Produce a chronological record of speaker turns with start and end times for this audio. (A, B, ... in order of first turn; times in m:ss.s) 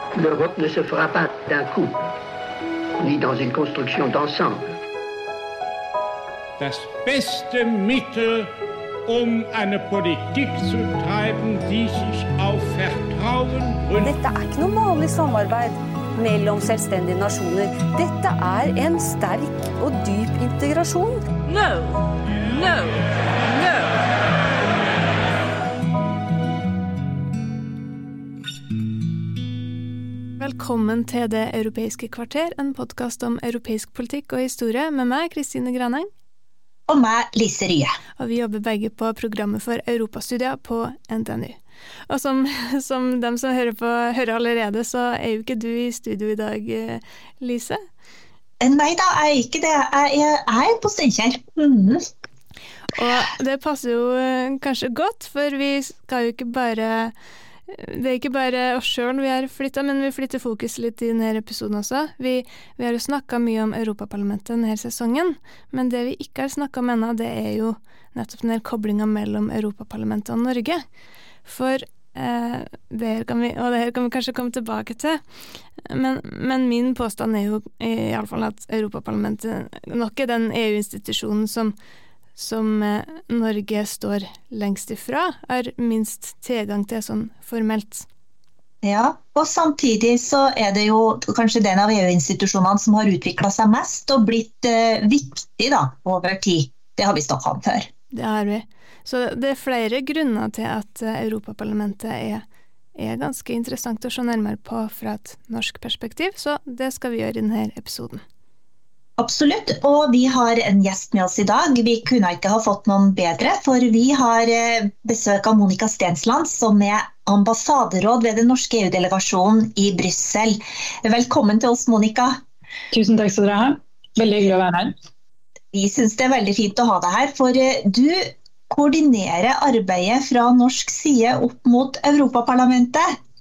0:00.1-0:02.1 A
0:03.0-0:04.7 A
0:06.6-0:08.5 B
0:09.0-0:14.1 B
0:14.0-0:21.3 C
0:21.5-0:23.9 D
0:30.4-0:36.1 E
0:36.9-0:37.9 F
0:38.2-0:47.8 E
0:48.6-0:52.0 F
0:52.9-0:57.1 E
0:57.7-1:10.8 E
1:11.4-1:15.2 E
1:15.8-1:21.7 E
1:22.4-1:28.1 E
1:28.8-1:37.9 F
1:38.1-1:42.4 E
1:43.0-1:48.2 E
1:49.2-2:02.4 F
2:02.9-2:04.9 G
2:05.7-2:13.1 F